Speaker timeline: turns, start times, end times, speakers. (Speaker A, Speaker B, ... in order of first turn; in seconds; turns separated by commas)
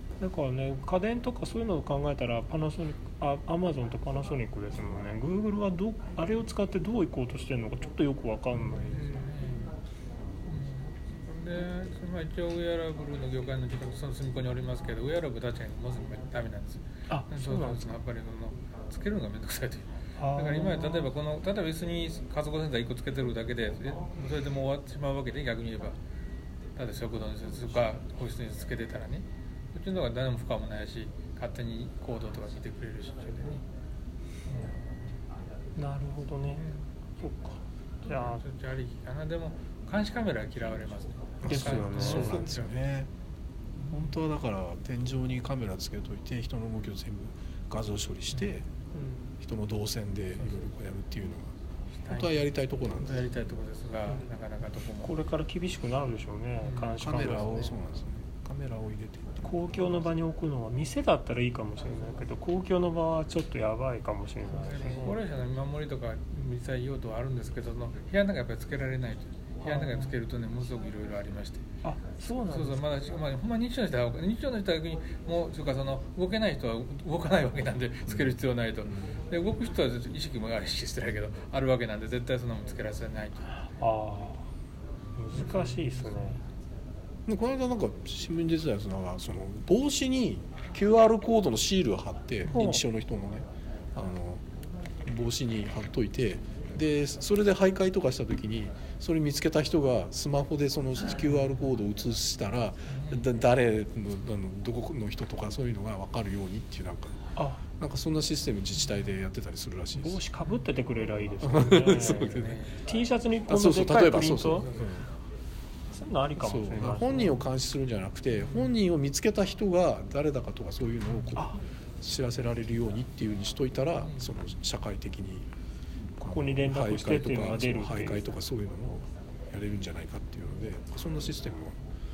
Speaker A: 0.2-9.2, Speaker B: 8.7-9.7, Speaker B: 10.4-26.0, Speaker A: 17.1-17.9, Speaker A: 20.2-21.1, Speaker B: 26.8-33.6, Speaker B: 34.5-35.0, Speaker A: 35.8-38.4, Speaker B: 38.0-42.8, Speaker C: 41.4-43.1, Speaker A: 41.5-42.5, Speaker C: 43.9-48.6, Speaker C: 49.4-51.5, Speaker B: 52.0-55.2, Speaker C: 52.1-53.3, Speaker A: 55.0-57.7, Speaker B: 56.6-57.7, Speaker C: 57.0-59.6, Speaker A: 59.4-65.2, Speaker B: 64.5-71.7, Speaker A: 69.6-70.1, Speaker A: 71.8-72.8, Speaker B: 72.5-83.5, Speaker C: 78.1-78.3, Speaker A: 83.7-84.4, Speaker A: 85.2-86.4, Speaker B: 85.3-86.4, Speaker C: 87.3-94.4, Speaker A: 92.5-92.8, Speaker C: 95.0-107.2, Speaker B: 102.9-103.3, Speaker A: 107.3-107.6, Speaker C: 107.8-110.2, Speaker A: 110.0-114.7, Speaker C: 111.4-112.6, Speaker B: 111.9-112.8, Speaker C: 113.5-115.0, Speaker B: 114.5-114.9, Speaker A: 115.9-117.4, Speaker C: 116.4-125.5, Speaker B: 124.0-124.3, Speaker C: 126.2-131.8, Speaker A: 126.2-128.3